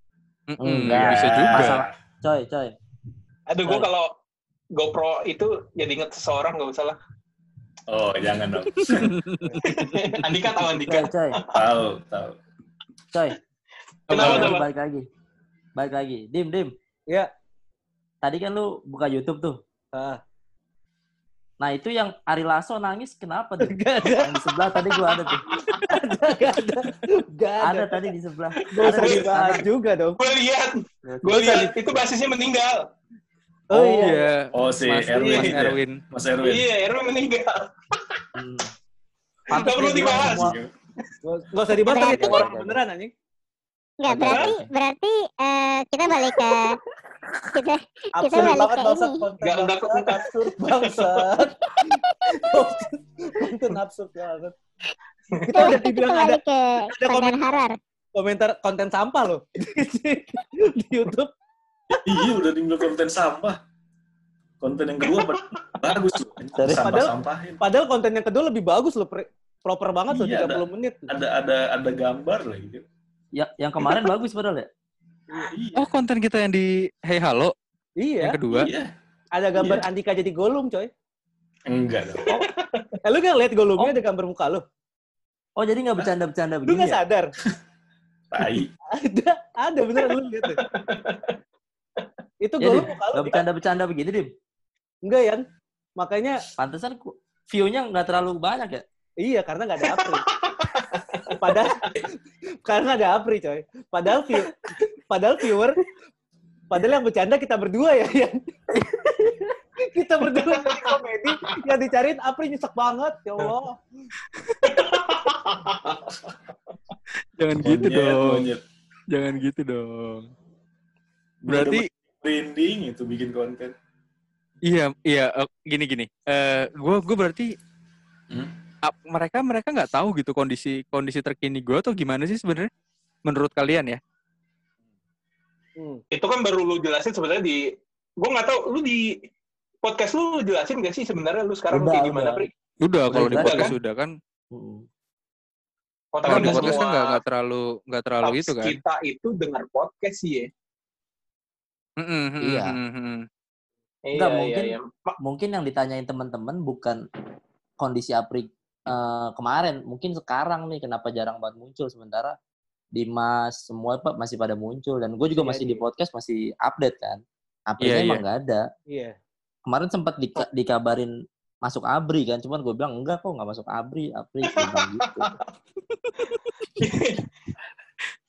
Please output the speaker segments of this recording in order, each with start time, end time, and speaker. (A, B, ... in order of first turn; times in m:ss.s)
0:00.5-0:01.8 A
0:00.6-0:02.8 B
0:00.9-0:01.9 C
0:03.5-0:04.1 D
0:04.7-0:07.0 D
0:07.9-0:09.2 C
0:08.8-0:10.0 A
0:09.6-0:11.7 D
0:10.3-0:11.4 B
0:11.5-0:12.4 C
0:14.1-0:14.7 D
0:14.1-0:14.6 A
0:14.1-0:15.1 B
0:15.8-0:16.8 B
0:18.2-0:19.6 B
0:19.9-0:20.2 E
0:21.6-0:25.5 B
0:23.6-0:28.0 E
0:27.6-0:29.6 B
0:28.6-0:29.2 D
0:28.7-0:30.2 E
0:30.2-0:32.8 D
0:31.1-0:32.0 B
0:33.7-0:34.3 E
0:33.7-0:36.0 A
0:34.5-0:36.7 C
0:35.2-0:35.6 E
0:36.4-0:38.3 D
0:38.4-0:38.7 B
0:39.5-0:40.5 D
0:39.5-0:40.6 B
0:40.0-0:40.7 C
0:41.2-0:43.1 E
0:41.8-0:42.6 F
0:42.0-0:42.8 B
0:44.0-0:46.8 F
0:44.1-0:44.7 B
0:44.3-0:44.5 D
0:47.5-0:49.3 F
0:48.2-0:54.6 E
0:49.4-0:51.4 D
0:55.3-0:55.8 D
0:55.4-0:57.4 E
0:55.6-0:57.8 F
0:58.2-1:01.3 E
1:01.9-1:03.6 C
1:04.6-1:07.6 C
1:05.1-1:05.7 D
1:06.6-1:07.0 B
1:06.8-1:11.1 E
1:10.1-1:12.8 C
1:13.4-1:14.7 B
1:15.5-1:15.9 C
1:15.8-1:17.5 A
1:18.0-1:18.4 E
1:18.2-1:18.7 A
1:18.5-1:18.9 C
1:19.4-1:20.9 E
1:19.6-1:19.8 C
1:21.7-1:22.3 C
1:22.3-1:22.9 D
1:23.0-1:24.6 E
1:25.6-1:27.0 B
1:26.7-1:27.3 E
1:28.3-1:28.7 C
1:28.9-1:30.6 E
1:30.6-1:31.4 D
1:32.4-1:33.4 E
1:32.6-1:34.3 B
1:35.0-1:35.4 E
1:36.0-1:36.4 E
1:36.6-1:38.8 B
1:39.2-1:40.2 E
1:39.9-1:42.0 D
1:41.3-1:42.1 E
1:42.6-1:45.8 E
1:46.7-1:53.8 E
1:50.4-1:51.0 D
1:54.4-1:54.7 A
1:54.6-1:56.1 D
1:57.4-1:58.5 A
1:57.6-1:58.6 C
1:59.1-2:00.3 A
2:01.4-2:03.8 C
2:01.5-2:01.9 A
2:04.7-2:07.5 A
2:08.8-2:12.7 A
2:13.2-2:14.0 A
2:15.8-2:16.0 E
2:16.1-2:17.6 D
2:18.2-2:19.1 D
2:19.8-2:22.5 D
2:21.7-2:22.4 B
2:22.8-2:24.2 A
2:23.1-2:23.8 B
2:23.3-2:23.7 D
2:24.5-2:24.9 B
2:26.1-2:27.2 D
2:26.3-2:28.8 A
2:26.3-2:26.8 B
2:28.2-2:30.5 D
2:32.0-2:33.3 A
2:32.4-2:32.8 B
2:34.1-2:35.2 D
2:34.1-2:37.0 B
2:37.8-2:42.4 B
2:42.9-2:48.7 B
2:45.4-2:45.8 E
2:47.8-2:48.2 A
2:48.9-2:49.2 E
2:49.7-2:51.1 B
2:51.6-2:55.3 B
2:54.5-2:55.5 D
2:56.1-2:56.5 A
2:56.8-2:57.3 D